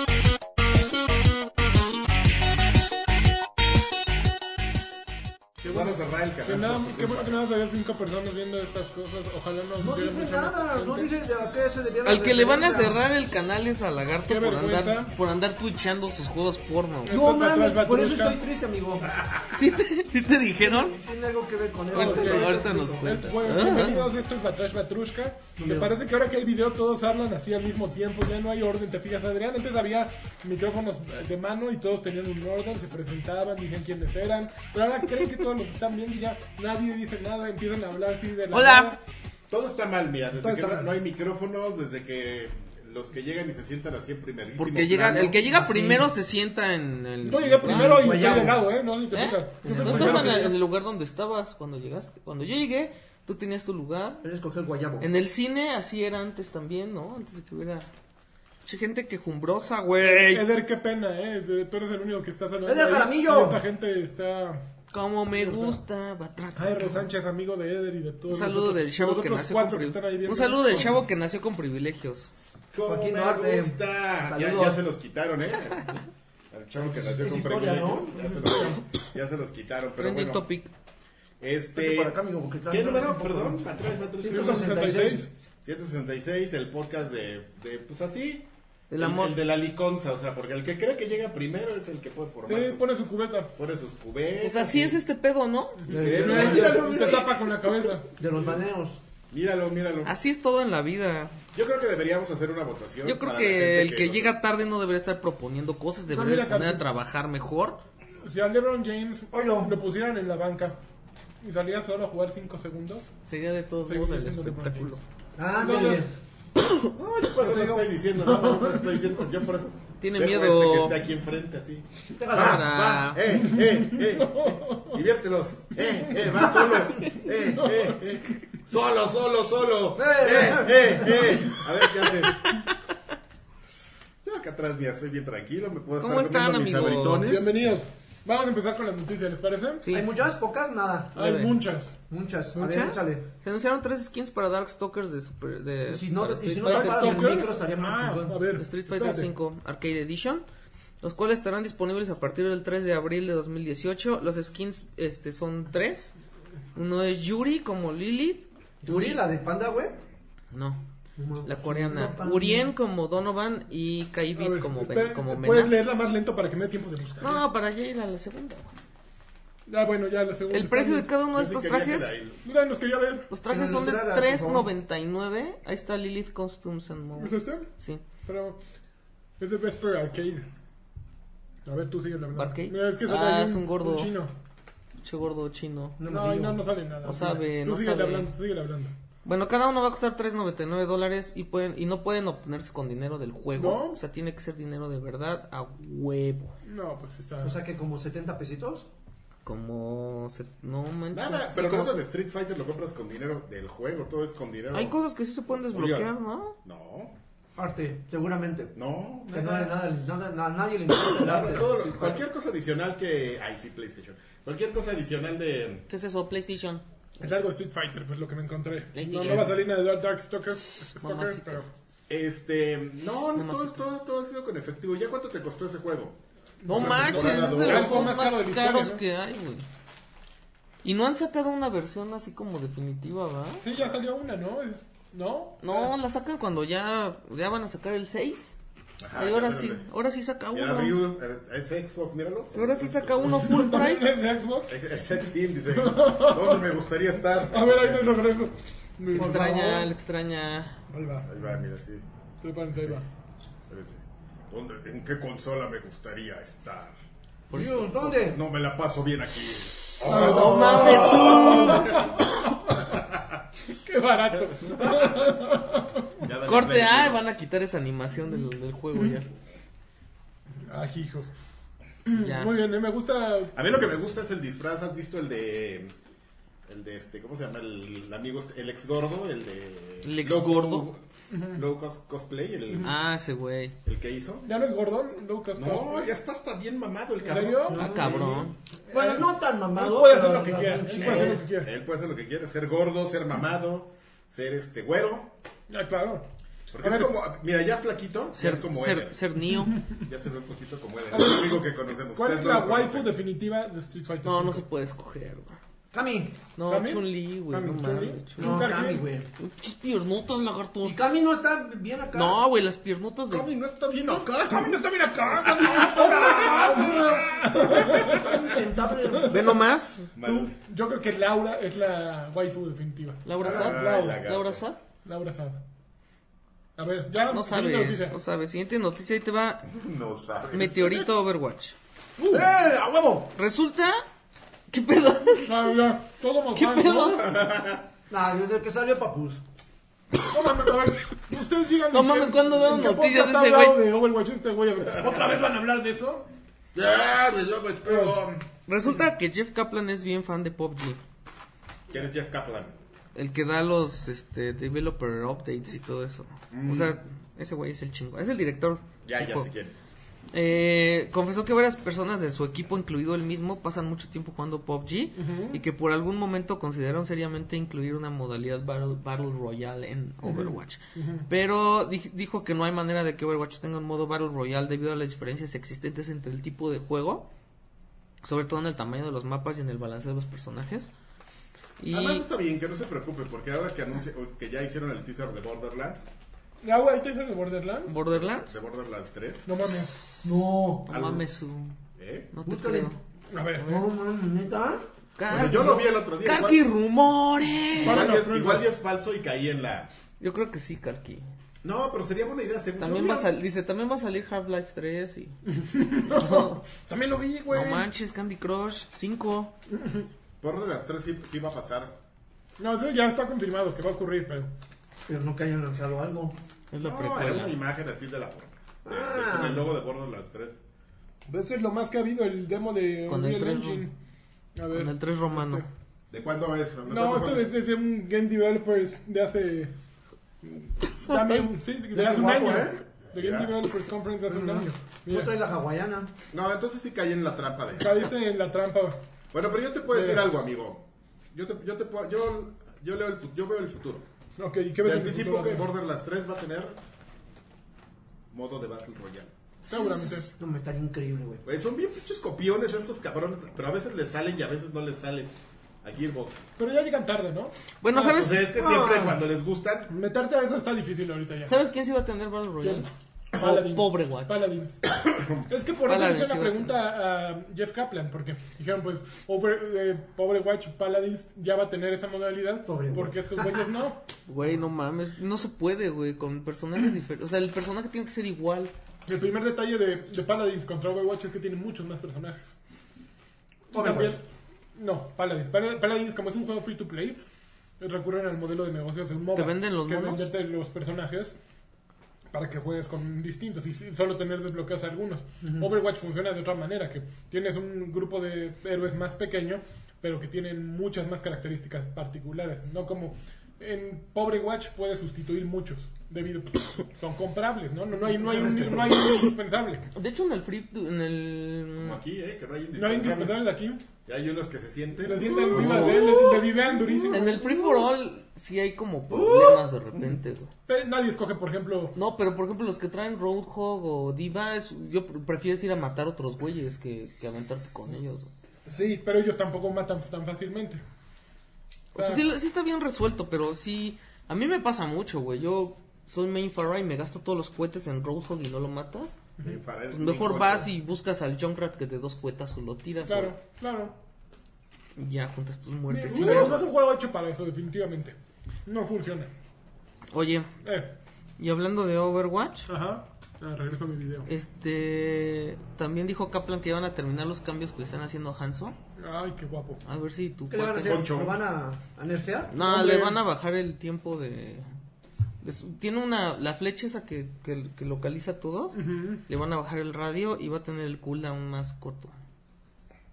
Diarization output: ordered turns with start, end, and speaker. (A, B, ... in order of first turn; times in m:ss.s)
0:05.6-0:11.1 A
0:05.6-0:07.4 B
0:09.8-0:13.0 C
0:12.0-0:17.2 D
0:14.3-0:15.1 A
0:17.1-0:18.4 A
0:17.1-0:19.2 C
0:19.1-0:19.6 B
0:19.5-0:21.0 D
0:20.6-0:24.1 C
0:21.9-0:24.0 D
0:21.9-0:39.0 A
0:25.6-0:25.9 C
0:38.5-0:39.0 D
0:39.5-0:45.6 B
0:40.4-0:40.9 C
0:44.6-0:48.5 D
0:45.3-0:46.1 C
0:47.2-0:50.6 A
0:47.7-0:48.7 C
0:49.1-0:54.2 D
0:49.6-0:50.6 C
0:54.2-0:55.1 C
0:55.0-0:57.9 D
0:58.6-1:00.4 D
1:00.0-1:04.6 A
1:02.6-1:03.6 C
1:04.9-1:07.0 D
1:05.3-1:05.8 A
1:06.6-1:11.0 A
1:08.3-1:12.3 D
1:12.7-1:16.0 B
1:12.8-1:14.8 C
1:16.5-1:20.4 B
1:17.1-1:18.8 C
1:20.0-1:20.7 D
1:21.4-1:22.2 B
1:21.8-1:23.7 C
1:22.7-1:24.9 B
1:24.2-1:25.3 C
1:24.3-1:25.3 A
1:25.6-1:32.8 B
1:28.9-1:29.4 D
1:32.4-1:33.5 A
1:33.6-1:35.0 B
1:34.4-1:35.8 D
1:35.8-1:38.1 A
1:35.9-1:37.2 B
1:35.9-1:37.5 C
1:38.2-1:39.0 C
1:39.3-1:40.1 B
1:40.0-1:41.3 D
1:41.5-1:44.3 B
1:43.0-1:47.8 D
1:46.1-1:46.8 A
1:48.2-1:50.8 A
1:49.3-1:49.8 C
1:51.4-1:53.1 A
1:53.3-1:55.0 D
1:53.8-1:55.0 A
1:55.4-1:56.1 C
1:55.6-1:56.1 A
1:57.0-2:12.5 B
1:57.4-1:59.1 A
2:00.0-2:01.0 D
2:02.2-2:02.7 C
2:02.3-2:03.2 D
2:03.5-2:05.0 A
2:07.3-2:08.0 A
2:10.0-2:11.6 C
2:12.2-2:12.6 D
2:14.2-2:17.6 B
2:16.0-2:17.4 D
2:17.2-2:19.8 A
2:19.8-2:20.1 D
2:19.9-2:21.2 C
2:21.2-2:22.0 A
2:21.2-2:21.6 D
2:22.1-2:23.3 C
2:22.6-2:23.0 A
2:22.6-2:27.3 D
2:25.9-2:28.4 C
2:26.6-2:29.3 A
2:28.6-2:30.4 D
2:31.0-2:36.2 D
2:36.8-2:39.2 D
2:38.8-2:40.0 C
2:40.5-2:40.8 D
2:41.2-2:42.7 C
2:41.4-2:45.7 D
2:44.4-2:47.4 A
2:47.2-2:48.8 D
2:49.7-2:51.1 A
2:50.5-2:52.1 D
2:51.3-2:52.4 B
2:52.4-2:53.3 A
2:53.3-2:58.0 D
2:53.5-2:54.7 C
2:57.2-2:57.7 A
2:58.2-2:58.6 A
2:59.4-3:00.5 A
3:01.7-3:04.3 A
3:02.4-3:04.1 D
3:05.0-3:06.0 D
3:06.0-3:07.2 C
3:06.1-3:08.9 A
3:07.0-3:08.3 D
3:09.2-3:16.6 D
3:13.6-3:14.0 A
3:16.6-3:17.6 A
3:17.4-3:18.9 C
3:19.4-3:22.0 D
3:21.1-3:25.0 B
3:24.7-3:26.6 D
3:25.5-3:26.1 B
3:26.6-3:27.2 B
3:27.6-3:28.7 C
3:28.8-3:29.8 B
3:29.3-3:32.2 C
3:31.1-3:35.9 B
3:35.9-3:36.8 D
3:37.2-3:41.6 A
3:38.9-3:39.5 D
3:39.2-3:39.5 B
3:41.0-3:41.7 D
3:42.1-3:48.1 B
3:43.4-3:43.8 D
3:46.6-3:49.0 A
3:46.7-3:49.7 D
3:50.8-3:53.6 D
3:53.6-3:55.9 A
3:55.6-3:58.6 D
3:59.0-3:59.8 B
3:59.1-4:01.0 D
4:00.5-4:03.4 B
4:02.5-4:04.1 D
4:03.2-4:04.7 A
4:04.7-4:08.3 B
4:05.7-4:06.7 A
4:07.5-4:09.9 A
4:09.1-4:10.8 D
4:09.2-4:09.5 C
4:10.9-4:11.3 A
4:11.2-4:12.0 B
4:12.4-4:13.0 A
4:12.8-4:13.0 B
4:13.7-4:17.0 B
4:17.5-4:18.3 D
4:17.5-4:18.4 C
4:18.1-4:23.4 B
4:20.0-4:22.0 D
4:20.1-4:22.3 A
4:23.7-4:26.2 A
4:24.7-4:25.4 B
4:26.2-4:27.2 B
4:26.4-4:29.3 D
4:30.7-4:31.3 A
4:32.1-4:33.6 A
4:32.1-4:32.5 D
4:33.6-4:35.9 B
4:36.7-4:42.9 B
4:40.0-4:40.9 D
4:41.3-4:41.6 A
4:42.8-4:43.8 D
4:43.8-4:44.5 B
4:44.4-4:46.1 A
4:45.6-4:48.4 B
4:47.2-4:48.0 A
4:47.6-4:51.4 C
4:47.8-4:48.5 D
4:48.9-4:51.7 A
4:51.0-4:55.3 B
4:55.7-4:56.3 A
4:56.7-4:59.2 B
4:56.8-4:57.1 A
4:58.4-4:59.8 D
5:00.0-5:03.1 B
5:01.1-5:04.6 A
5:04.2-5:05.6 D
5:05.9-5:06.4 C
5:06.6-5:08.7 D
5:06.7-5:09.0 A
5:08.4-5:09.3 C
5:09.4-5:11.0 D
5:10.8-5:12.4 C
5:12.1-5:13.5 D
5:13.3-5:18.4 B
5:14.2-5:19.5 A
5:18.0-5:19.6 C
5:19.2-5:20.0 D
5:20.2-5:20.6 B
5:20.2-5:24.2 A
5:23.2-5:24.8 D
5:23.4-5:24.6 B
5:25.0-5:25.6 A
5:26.8-5:28.2 A
5:27.2-5:29.7 D
5:29.7-5:31.1 B
5:30.5-5:31.8 D
5:32.2-5:33.3 C
5:33.4-5:34.0 D
5:34.7-5:35.7 D
5:35.4-5:37.3 A
5:36.6-5:37.3 D
5:37.2-5:37.8 B
5:38.1-5:39.4 C
5:40.2-5:46.3 A
5:41.9-5:43.8 D
5:46.8-5:48.4 B
5:47.9-5:48.2 A
5:48.7-5:51.0 D
5:51.9-5:52.7 B
5:53.2-5:59.5 D
5:56.5-5:57.0 B
5:59.0-5:59.7 B
6:00.3-6:17.3 D
6:05.2-6:05.6 A
6:10.2-6:11.3 A
6:18.2-6:20.9 D
6:21.8-6:22.3 D
6:21.9-6:26.0 B
6:26.6-6:27.9 A
6:27.9-6:28.6 D
6:28.1-6:29.5 B
6:29.5-6:30.0 A
6:30.2-6:30.9 C
6:30.9-6:31.8 D
6:30.9-6:31.2 B
6:32.0-6:32.3 B
6:32.3-6:33.0 D
6:32.4-6:33.0 C
6:33.3-6:33.7 A
6:33.6-6:33.9 D
6:33.6-6:35.9 C
6:35.2-6:38.2 D
6:35.3-6:36.6 B
6:37.8-6:39.9 B
6:37.8-6:38.7 A
6:40.2-6:41.3 D
6:41.6-6:43.3 B
6:42.8-6:45.4 D
6:45.5-6:47.9 A
6:46.1-6:46.6 D
6:47.5-6:49.5 D
6:49.7-6:50.0 A
6:50.4-6:52.0 B
6:52.6-6:54.5 A
6:55.1-6:56.4 C
6:56.7-6:57.6 D
6:56.8-7:00.6 B
6:58.8-6:59.7 C
7:01.3-7:03.9 A
7:03.1-7:03.9 D
7:04.6-7:05.7 A
7:04.7-7:05.6 D
7:06.1-7:07.5 B
7:06.9-7:09.7 A
7:10.4-7:15.4 A
7:11.9-7:12.8 C
7:13.1-7:13.6 B
7:14.3-7:16.1 C
7:16.3-7:18.1 B
7:17.8-7:19.0 A
7:19.3-7:24.0 B
7:19.9-7:20.3 A
7:24.4-7:25.7 A
7:24.8-7:26.8 B
7:28.3-7:29.3 B
7:29.7-7:30.3 A
7:29.7-7:31.4 C
7:31.4-7:35.3 B
7:35.8-7:36.4 B
7:36.6-7:38.4 A
7:37.8-7:38.5 D
7:38.1-7:39.9 B
7:38.5-7:39.2 C
7:39.9-7:41.6 A
7:41.5-7:44.4 D
7:42.6-7:44.8 A
7:44.9-7:45.5 B
7:45.5-7:54.0 A
7:45.9-7:46.7 D
7:52.7-7:53.2 C
7:54.3-7:58.7 D
7:59.1-8:02.5 A
8:03.7-8:04.2 A
8:03.7-8:04.2 C
8:04.8-8:07.2 A
8:07.8-8:11.4 A
8:09.3-8:10.3 D
8:12.3-8:29.9 A
8:15.4-8:15.7 C
8:28.0-8:29.3 C
8:29.9-8:32.0 D
8:31.8-8:33.5 B
8:32.8-8:33.8 A
8:34.1-8:36.0 B
8:35.0-8:37.7 A
8:35.5-8:36.5 D
8:35.6-8:37.8 C
8:37.1-8:40.5 D
8:39.1-8:39.6 C
8:40.7-8:42.0 A
8:42.0-8:48.3 D
8:48.7-8:50.8 A
8:51.9-8:59.2 D
8:52.0-8:52.2 A
8:59.4-9:00.7 B
8:59.9-9:03.4 D
9:03.1-9:04.0 A
9:05.0-9:06.6 D
9:05.9-9:09.3 A
9:10.1-9:10.5 D
9:10.6-9:10.9 A
9:11.4-9:12.7 D
9:12.7-9:14.3 A
9:14.3-9:18.8 D
9:19.0-9:19.8 A
9:19.8-9:21.0 D
9:20.5-9:22.6 C
9:20.8-9:21.4 B
9:22.5-9:24.7 D
9:22.6-9:23.2 A
9:25.4-9:32.1 D
9:28.7-9:29.2 A